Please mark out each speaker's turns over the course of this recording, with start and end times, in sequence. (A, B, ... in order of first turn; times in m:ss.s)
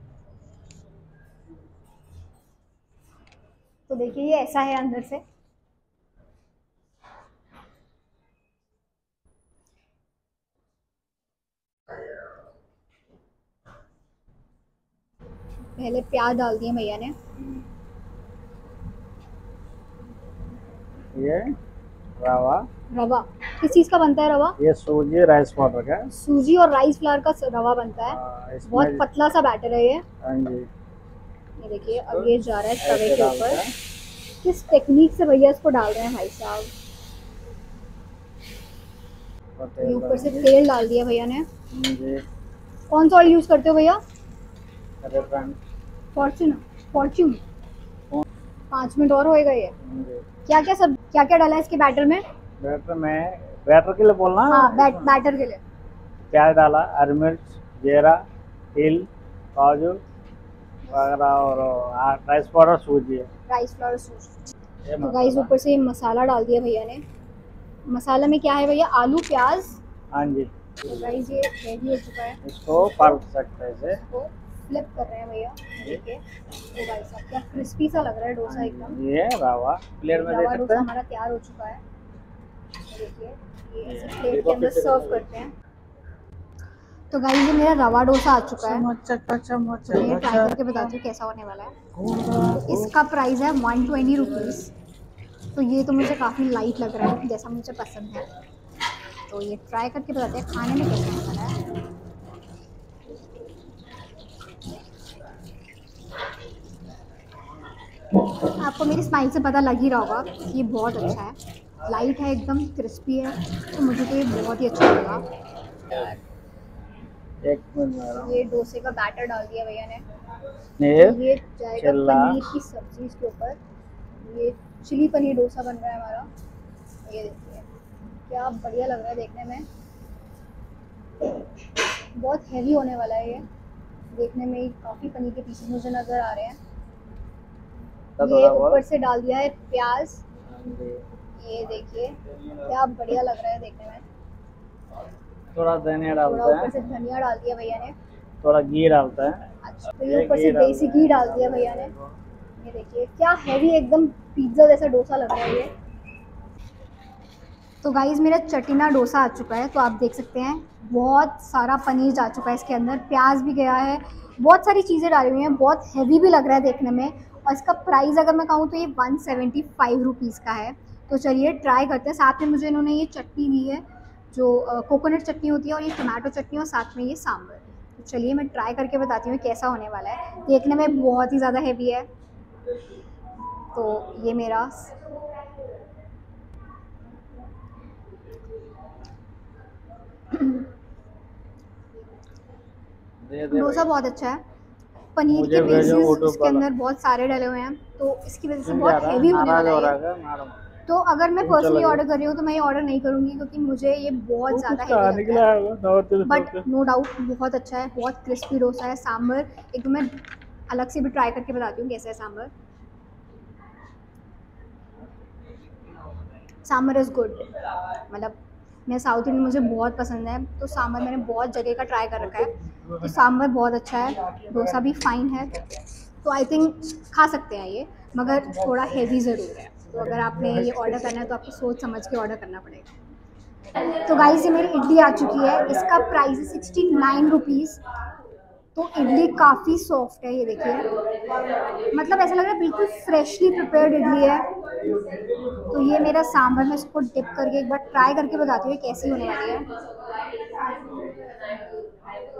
0:03.9-0:05.2 A
0:15.8-0:17.1 A
0:21.1-0:21.5 B
0:22.2-0:22.6 B
0:22.9-0:24.6 A
0:24.6-0:26.1 B
0:26.1-0:30.0 A
0:28.1-0:29.0 B
0:30.2-0:30.7 B
0:31.6-0:33.6 A
0:32.1-0:33.7 B
0:34.4-0:36.7 A
0:39.6-0:40.5 B
0:39.8-0:41.4 A
0:41.7-0:42.2 B
0:42.9-0:44.0 A
0:45.0-0:45.6 B
0:46.1-0:47.4 A
0:48.7-0:49.7 A
0:49.8-0:50.2 B
0:50.4-0:52.2 A
0:52.6-0:55.1 B
0:54.5-0:55.6 A
0:56.3-0:58.2 B
0:58.8-1:00.0 B
1:00.9-1:03.3 B
1:03.5-1:04.3 A
1:04.9-1:05.5 B
1:05.0-1:07.0 A
1:07.9-1:09.8 A
1:10.1-1:10.5 B
1:10.8-1:12.4 A
1:12.4-1:14.0 B
1:14.1-1:19.0 A
1:18.5-1:20.9 B
1:20.2-1:21.8 A
1:22.9-1:25.5 A
1:23.8-1:25.2 B
1:27.1-1:28.9 A
1:28.6-1:30.9 B
1:29.8-1:31.8 A
1:32.0-1:32.9 B
1:32.5-1:34.7 A
1:35.5-1:38.3 A
1:39.3-1:41.6 A
1:48.5-1:55.2 A
1:57.4-1:58.3 B
1:58.1-2:00.0 A
2:00.8-2:01.2 B
2:01.0-2:03.6 A
2:01.8-2:02.4 B
2:04.2-2:06.3 A
2:07.0-2:07.6 A
2:08.3-2:09.7 A
2:12.1-2:13.4 A
2:14.1-2:16.6 A
2:18.2-2:18.8 B
2:18.2-2:20.2 A
2:20.5-2:21.0 B
2:21.4-2:24.0 A
2:25.5-2:26.7 B
2:26.2-2:27.9 A
2:28.4-2:29.4 B
2:29.6-2:31.9 A
2:30.0-2:32.1 B
2:32.6-2:35.7 A
2:37.8-3:02.1 A
3:03.7-3:05.0 A
3:13.2-3:13.9 B
3:13.5-3:14.4 A
3:15.1-3:19.9 A
3:15.3-3:16.6 B
3:18.6-3:20.6 B
3:20.9-3:25.4 A
3:21.4-3:22.0 B
3:24.5-3:26.6 B
3:26.2-3:32.5 A
3:36.6-3:37.4 A
3:38.1-3:38.4 A
3:38.9-3:52.9 A
3:54.0-3:57.8 A
3:58.7-4:00.9 A
4:01.9-4:04.5 A
4:05.7-4:09.7 A